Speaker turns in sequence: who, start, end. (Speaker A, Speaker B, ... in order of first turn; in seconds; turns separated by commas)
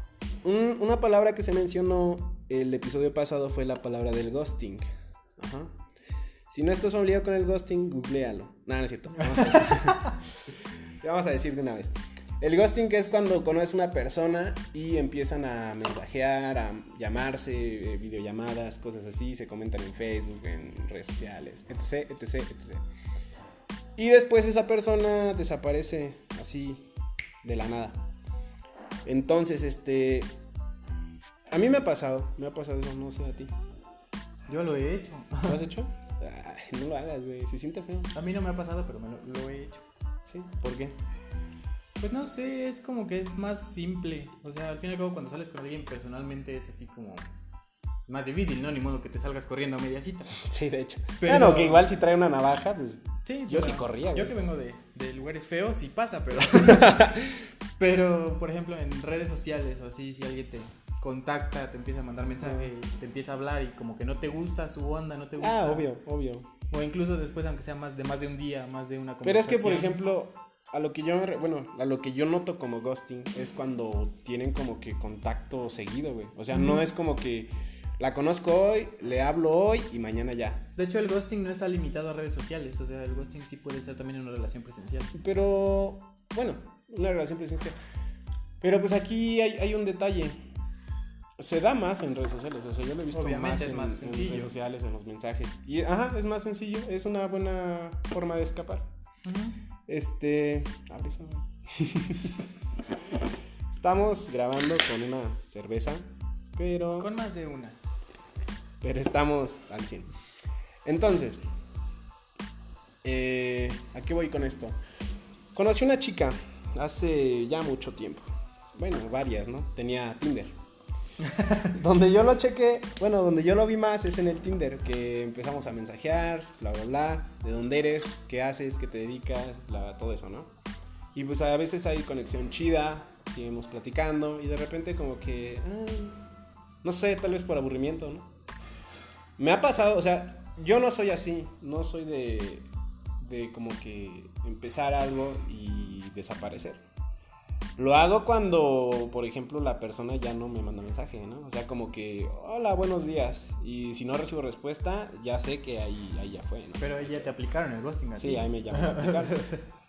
Speaker A: 0.4-5.8, Speaker A: 6.5-22.8, Speaker B: 9.3-10.1, Speaker A: 23.9-26.9, Speaker A: 27.4-28.1, Speaker A: 29.0-30.4, Speaker A: 31.5-33.6, Speaker B: 34.5-35.6, Speaker A: 35.4-38.1, Speaker B: 38.1-39.8, Speaker A: 40.2-41.0, Speaker B: 42.0-47.3, Speaker B: 48.1-50.4, Speaker A: 50.4-54.3, Speaker B: 51.2-51.8, Speaker B: 53.2-65.9, Speaker A: 56.5-57.3, Speaker A: 62.4-62.7, Speaker A: 65.4-66.5, Speaker B: 66.7-70.0, Speaker A: 69.2-80.7, Speaker B: 76.5-76.8, Speaker B: 80.8-85.1, Speaker A: 85.1-87.8, Speaker A: 88.6-90.5, Speaker A: 91.4-98.9, Speaker B: 93.1-94.5, Speaker B: 99.2-99.6, Speaker A: 99.9-102.5, Speaker A: 103.7-107.1, Speaker B: 107.0-107.8, Speaker A: 108.8-110.1, Speaker A: 110.8-111.4, Speaker A: 113.0-114.8, Speaker A: 115.5-120.5, Speaker B: 121.3-121.7, Speaker A: 121.6-130.5, Speaker A: 131.1-136.2, Speaker A: 136.8-138.3, Speaker A: 139.4-142.7, Speaker A: 143.2-146.8, Speaker A: 147.8-157.3, Speaker B: 156.8-159.6, Speaker A: 158.2-159.5